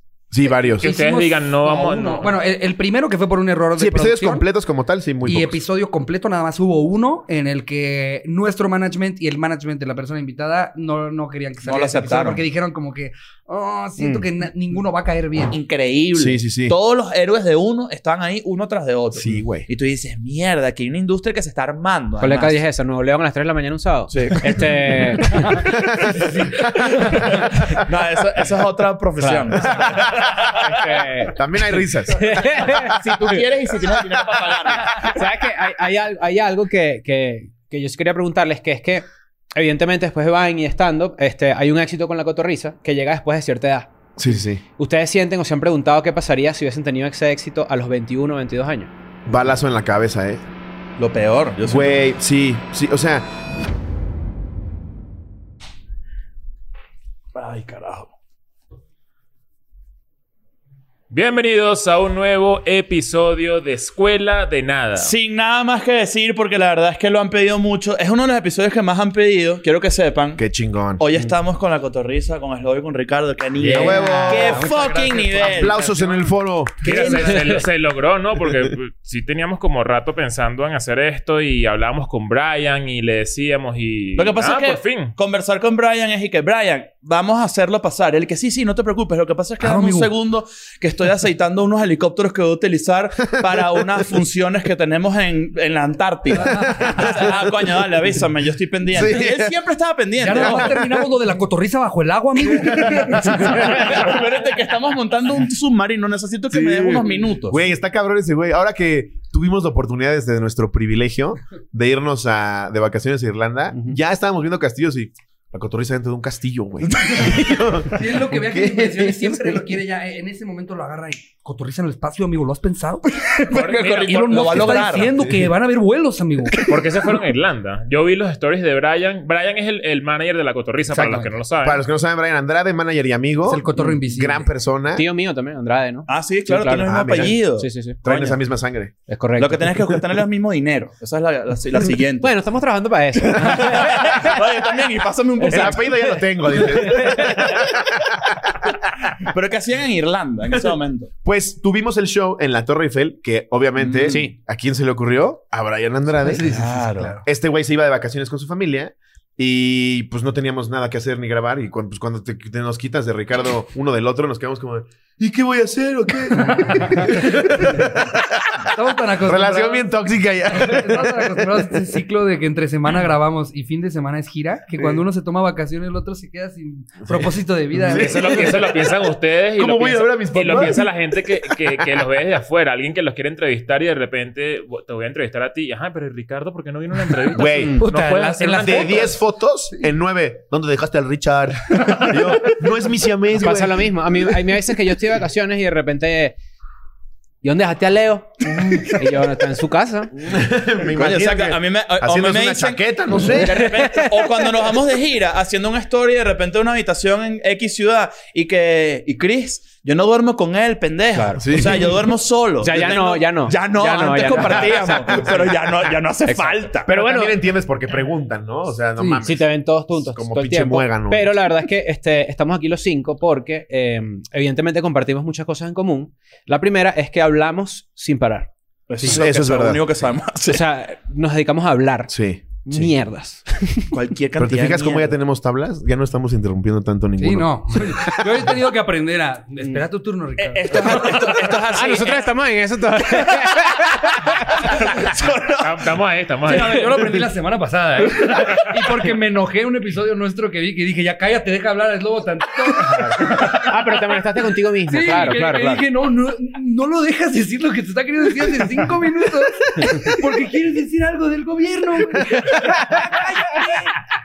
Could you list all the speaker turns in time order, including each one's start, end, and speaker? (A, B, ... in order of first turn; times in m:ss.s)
0:00.3-0:00.9 A
0:00.4-0:04.4 B
0:00.8-0:02.3 C
0:03.8-0:05.6 A
0:05.2-0:15.6 B
0:11.6-0:12.4 D
0:14.0-0:14.2 E
0:15.5-0:22.6 D
0:16.1-0:16.7 A
0:19.1-0:19.7 A
0:22.2-0:25.7 E
0:24.1-0:24.6 D
0:25.6-0:27.5 A
0:26.1-0:27.4 B
0:26.8-0:30.8 D
0:29.2-0:29.8 E
0:29.7-0:30.2 A
0:30.6-0:33.4 E
0:31.3-0:32.8 A
0:32.5-0:35.2 D
0:35.0-0:48.9 E
0:44.2-0:44.6 A
0:49.2-0:50.4 A
0:51.0-0:52.0 D
0:51.6-0:53.3 A
0:57.3-0:58.1 D
1:01.1-1:05.1 C
1:05.0-1:10.4 D
1:10.4-1:11.0 A
1:11.0-1:15.8 D
1:13.6-1:14.7 A
1:13.8-1:16.1 B
1:13.9-1:14.3 E
1:15.3-1:17.4 A
1:16.8-1:25.1 C
1:16.8-1:17.5 D
1:24.2-1:40.8 D
1:29.6-1:30.1 B
1:36.3-1:37.2 B
1:36.4-1:37.7 A
1:38.9-1:39.6 A
1:40.2-1:43.9 B
1:40.2-1:41.0 A
1:42.6-1:44.1 A
1:42.9-1:47.6 D
1:46.5-1:59.8 A
1:56.9-1:57.3 D
1:57.8-2:06.7 B
2:03.5-2:05.1 D
2:03.5-2:04.8 C
2:05.2-2:05.5 A
2:06.5-2:06.9 D
2:06.6-2:11.8 C
2:10.9-2:15.0 A
2:13.4-2:14.5 B
2:14.9-2:18.0 E
2:16.1-2:18.4 D
2:16.8-2:17.4 A
2:18.0-2:18.9 A
2:19.1-2:19.9 E
2:19.4-2:22.3 D
2:22.2-2:24.4 E
2:23.4-2:26.0 D
2:25.4-2:27.5 E
2:25.5-2:28.7 A
2:29.2-2:31.1 D
2:31.2-2:51.8 A
2:33.8-2:34.2 D
2:34.1-2:34.3 E
2:36.2-2:37.2 B
2:36.5-2:37.2 D
2:46.3-2:47.9 B
2:48.7-2:49.9 B
2:50.5-2:58.8 B
2:54.8-2:55.0 A
2:57.0-2:58.5 A
2:57.9-3:09.2 C
2:59.6-3:01.6 A
3:07.1-3:09.2 B
3:07.3-3:07.8 A
3:07.5-3:07.8 E
3:08.6-3:14.0 A
3:13.3-3:16.4 E
3:17.4-3:20.2 E
3:18.6-3:19.0 A
3:20.2-3:23.8 A
3:20.9-3:36.9 D
3:23.4-3:24.3 E
3:31.1-3:31.4 E
3:31.4-3:32.0 A
3:32.6-3:35.3 E
3:34.5-3:35.6 A
3:36.3-3:37.4 E
3:36.9-3:41.4 A
3:39.0-3:39.2 B
3:39.2-3:48.5 E
3:48.9-3:50.6 D
3:49.0-3:49.8 A
3:50.5-3:53.9 E
3:52.1-3:52.9 A
3:53.9-3:55.2 D
3:54.4-3:58.5 A
3:57.2-4:01.7 B
4:00.4-4:02.3 D
4:01.7-4:04.7 E
4:04.5-4:05.9 D
4:05.6-4:07.2 C
4:06.4-4:14.2 B
4:13.2-4:15.8 E
4:14.9-4:23.4 B
4:22.8-4:23.1 E
4:23.6-4:23.8 D